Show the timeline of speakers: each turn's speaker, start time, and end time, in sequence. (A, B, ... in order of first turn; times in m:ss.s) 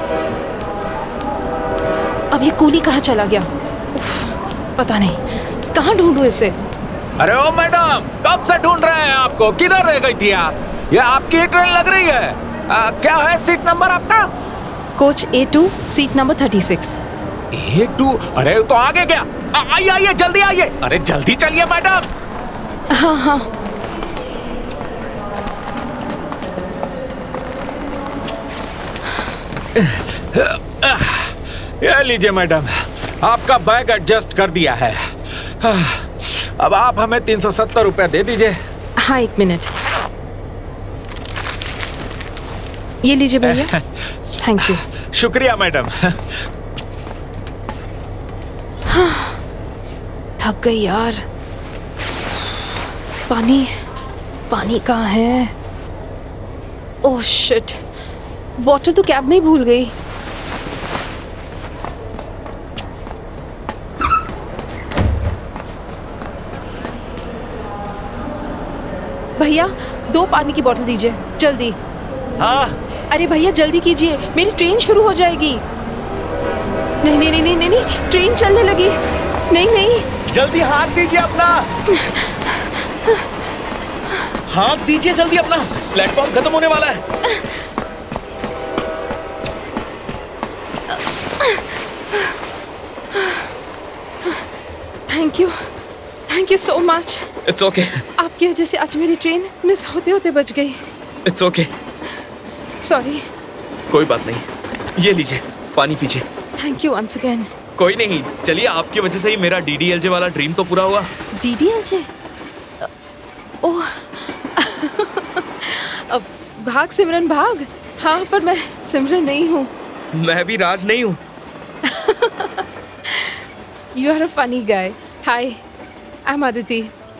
0:02.3-0:06.6 A
0:07.2-0:14.3 B
0:15.0-0:17.0 A
0:17.5-0:22.1 B
0:22.9-0:23.5 A
0:29.8-0:35.0 B
0:35.6-0:38.6 B
0:39.0-0:39.7 A
0:43.0-0:43.7 A
0:43.4-0:43.8 B
0:44.4-0:44.8 A
0:44.6-0:46.2 B
0:48.9-0:49.4 A
0:50.4-0:51.2 A
0:53.3-0:53.7 A
0:54.5-0:55.5 A
0:57.0-0:57.8 A
0:58.6-0:59.9 A
1:09.4-1:11.8 A
1:12.4-1:12.7 C
1:13.1-1:15.6 A
1:17.0-1:18.9 A
1:19.5-1:20.0 A
1:20.3-1:21.7 C
1:21.9-1:23.2 A
1:24.5-1:27.0 C
1:27.2-1:27.7 A
1:30.9-1:32.4 A
1:33.1-1:33.5 A
1:35.1-1:35.5 A
1:36.3-1:37.3 A
1:37.5-1:38.0 C
1:38.2-1:40.8 A
1:41.2-1:41.7 C
1:42.8-1:43.2 A
1:43.9-1:46.2 C
1:46.6-1:47.5 A
1:47.8-1:51.1 C
1:51.4-1:52.1 A
1:53.6-1:59.7 A
2:00.1-2:01.2 C
2:01.8-2:03.4 A
2:04.0-2:05.6 A
2:06.2-2:06.9 A